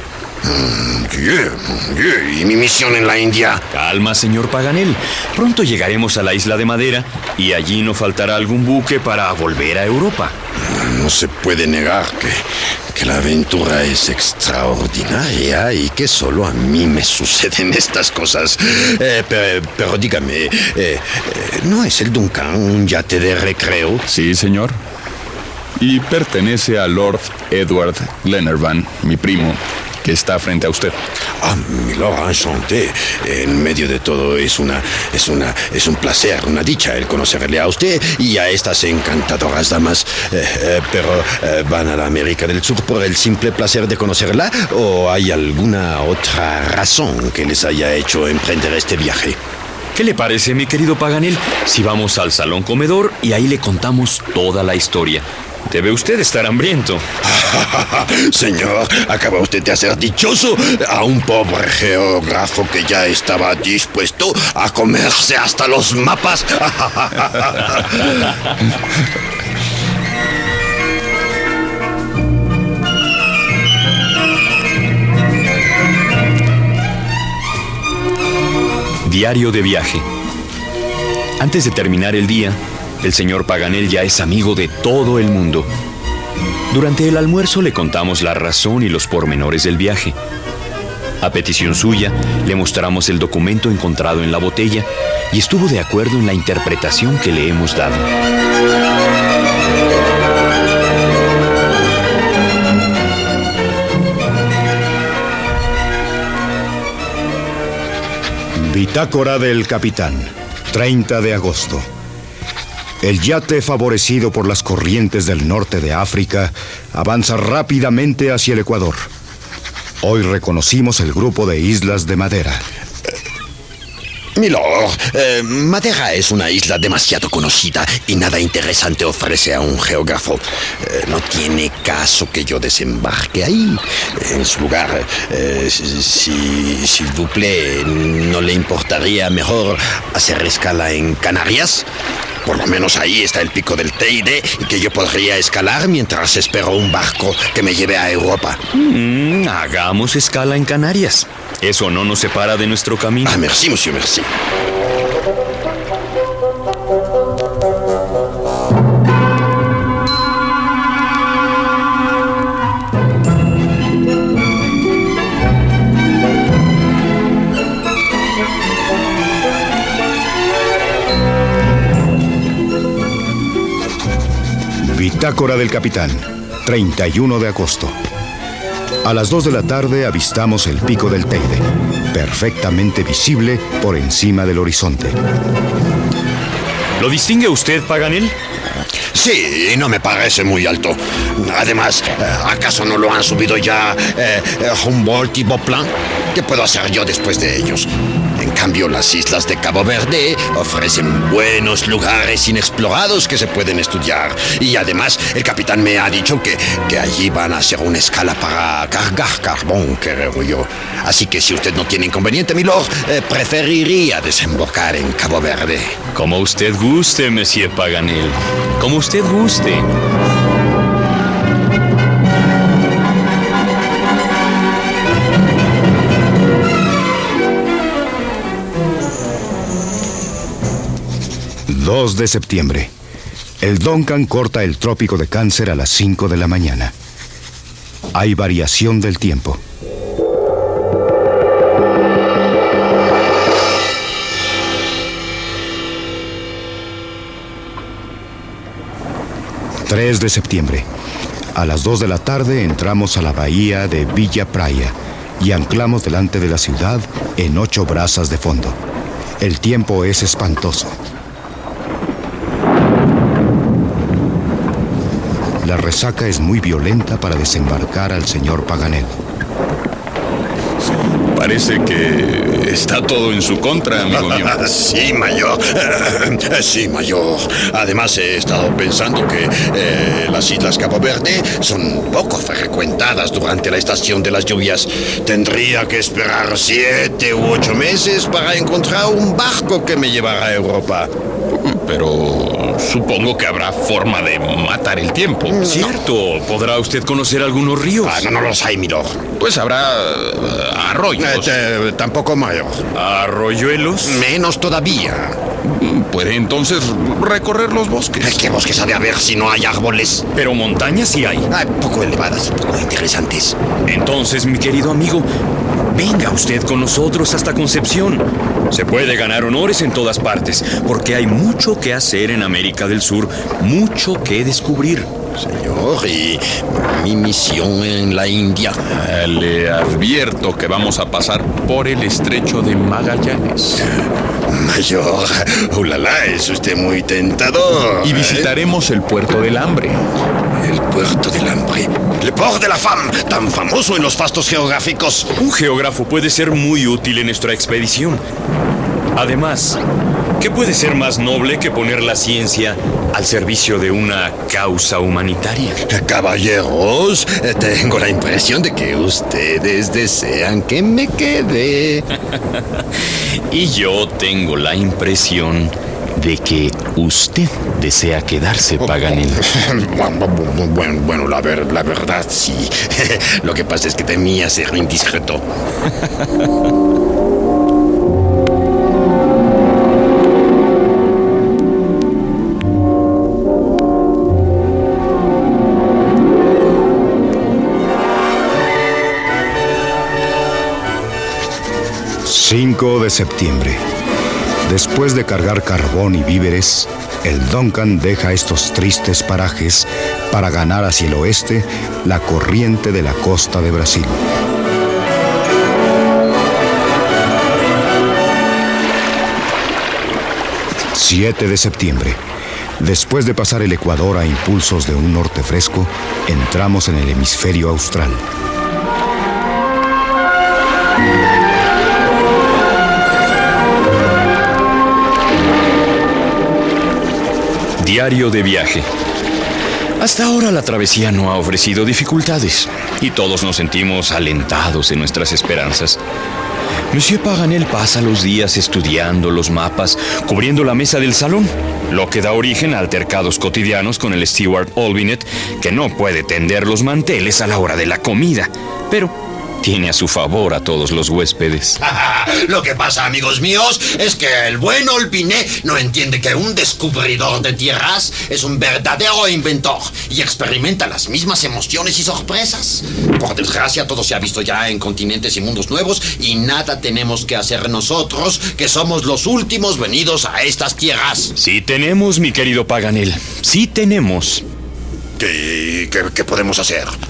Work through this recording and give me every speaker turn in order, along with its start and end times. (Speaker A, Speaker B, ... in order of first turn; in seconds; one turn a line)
Speaker A: 0.4-3.6
Speaker B: 3.7-10.3
Speaker A: 10.6-24.0
Speaker C: 24.1-24.8
Speaker C: 25.8-30.9
Speaker A: 31.4-49.4
Speaker B: 49.9-57.0
Speaker A: 57.2-68.1
Speaker B: 79.0-80.0
Speaker B: 81.4-85.7
Speaker B: 86.7-90.2
Speaker B: 91.2-98.1
Speaker D: 108.5-111.8
Speaker D: 113.0-119.1
Speaker D: 120.0-122.6
Speaker A: 124.3-141.8
Speaker A: 142.4-148.6
Speaker B: 148.7-153.4
Speaker A: 153.2-154.3
Speaker D: 174.8-178.0
Speaker D: 179.0-185.2
Speaker B: 187.0-188.3
Speaker A: 189.1-216.0
Speaker B: 216.1-219.9
Speaker D: 231.7-232.9
Speaker D: 233.6-236.9
Speaker D: 238.1-239.6
Speaker D: 249.9-250.8
Speaker D: 251.5-258.8
Speaker D: 259.4-260.9
Speaker D: 265.6-269.2
Speaker C: 271.3-274.6
Speaker A: 274.1-291.1
Speaker C: 291.5-295.6
Speaker A: 295.5-295.9
Speaker B: 295.6-298.3
Speaker A: 298.0-299.2
Speaker C: 299.4-301.5
Speaker A: 301.1-302.8
Speaker B: 302.9-304.2
Speaker A: 304.0-305.4
Speaker C: 305.6-308.4
Speaker A: 308.2-310.2
Speaker B: 310.3-311.5
Speaker A: 311.5-313.6
Speaker B: 313.8-315.3
Speaker B: 315.9-325.1
Speaker A: 325.4-328.8
Speaker C: 328.9-333.9
Speaker A: 334.5-338.5
Speaker C: 338.0-340.0
Speaker A: 340.6-345.3
Speaker B: 345.3-348.2
Speaker B: 349.1-349.8
Speaker B: 350.4-355.9
Speaker A: 355.9-362.1
Speaker B: 363.5-369.4
Speaker A: 369.4-375.4
Speaker D: 392.2-393.8
Speaker D: 394.6-404.2
Speaker D: 410.9-412.2
Speaker D: 412.8-418.2
Speaker B: 427.8-428.9
Speaker B: 430.0-436.0
Speaker B: 436.9-451.8
Speaker A: 451.8-471.3
Speaker B: 471.4-474.4
Speaker A: 475.2-476.9